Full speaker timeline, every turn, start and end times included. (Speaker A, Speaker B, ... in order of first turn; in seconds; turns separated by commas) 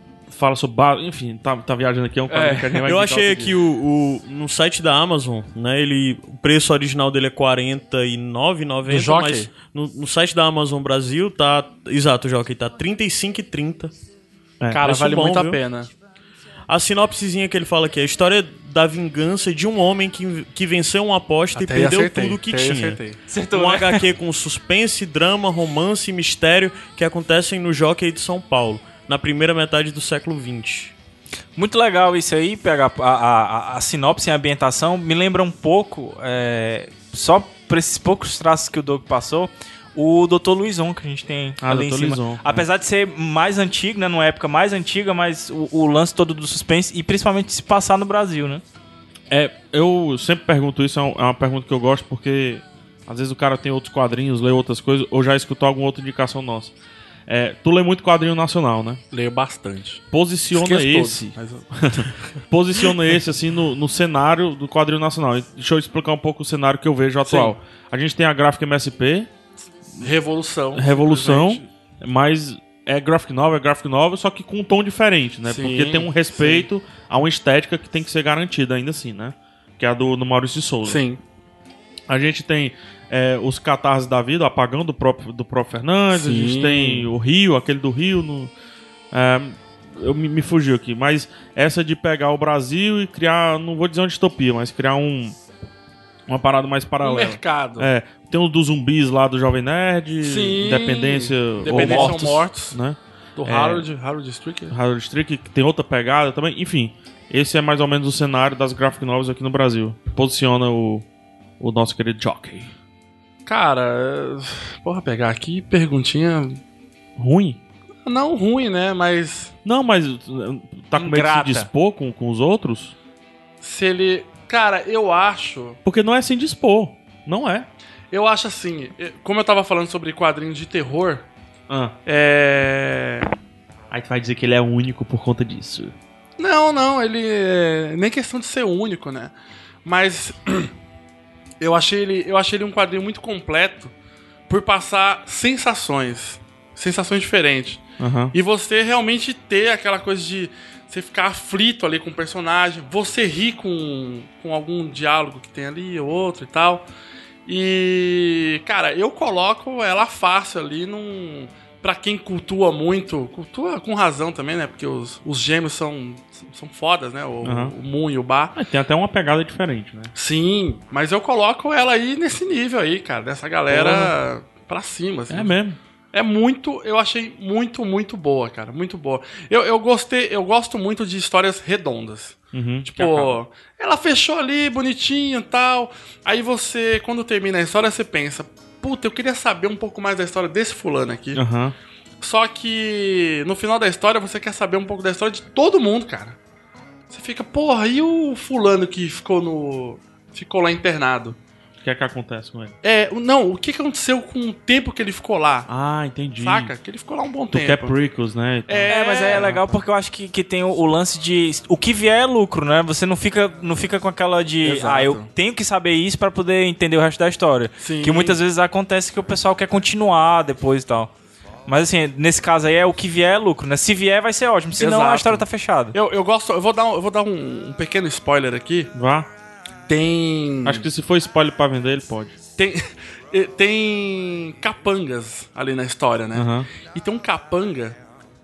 Speaker A: 0.3-3.5, Speaker B: 2.3-2.8, Speaker C: 2.8-13.9, Speaker D: 8.9-9.5, Speaker D: 14.7-15.9, Speaker C: 14.8-15.6, Speaker C: 16.7-23.0, Speaker D: 21.5-23.2, Speaker B: 23.3-24.0, Speaker C: 23.5-30.9, Speaker B: 31.6-48.6, Speaker A: 41.6-42.6, Speaker A: 49.3-56.7, Speaker A: 57.3-59.0, Speaker D: 59.1-62.1, Speaker A: 60.1-69.3, Speaker D: 67.2-67.5, Speaker D: 70.0-71.7, Speaker A: 70.7-81.0, Speaker D: 75.5-76.7, Speaker D: 80.8-81.2, Speaker A: 82.1-88.5, Speaker D: 86.1-87.1, Speaker A: 89.1-95.4, Speaker A: 96.3-103.8, Speaker D: 97.0-97.9, Speaker D: 100.2-102.8, Speaker B: 101.7-102.3, Speaker D: 103.4-104.7, Speaker A: 104.7-111.0, Speaker A: 111.6-112.7, Speaker D: 113.5-116.6, Speaker A: 117.2-117.6, Speaker D: 118.0-119.5, Speaker A: 119.6-122.9, Speaker B: 120.9-121.7, Speaker D: 123.6-125.8, Speaker A: 125.8-127.7, Speaker D: 128.1-131.3, Speaker A: 131.7-131.9, Speaker D: 132.1-133.3, Speaker A: 133.9-135.9, Speaker D: 136.4-139.3, Speaker D: 139.8-140.7, Speaker D: 141.6-143.9, Speaker D: 144.5-156.9, Speaker A: 148.0-148.3, Speaker D: 157.4-168.5, Speaker A: 167.4-167.7, Speaker A: 168.5-170.1, Speaker D: 170.1-175.6, Speaker A: 173.7-174.2, Speaker A: 175.3-175.8, Speaker D: 176.1-191.4, Speaker A: 182.5-183.4, Speaker A: 191.3-191.7, Speaker D: 192.2-196.4, Speaker D: 197.1-201.4, Speaker A: 201.8-202.7, Speaker D: 202.8-205.7, Speaker A: 205.7-206.7, Speaker D: 206.4-207.9, Speaker A: 207.5-209.7, Speaker D: 208.7-209.5, Speaker B: 208.9-221.1, Speaker D: 214.6-215.3, Speaker D: 217.8-218.4, Speaker B: 221.7-225.9, Speaker D: 224.8-228.9, Speaker A: 228.9-229.3, Speaker D: 229.9-230.8, Speaker A: 230.6-232.3, Speaker D: 232.6-238.0, Speaker A: 236.3-236.7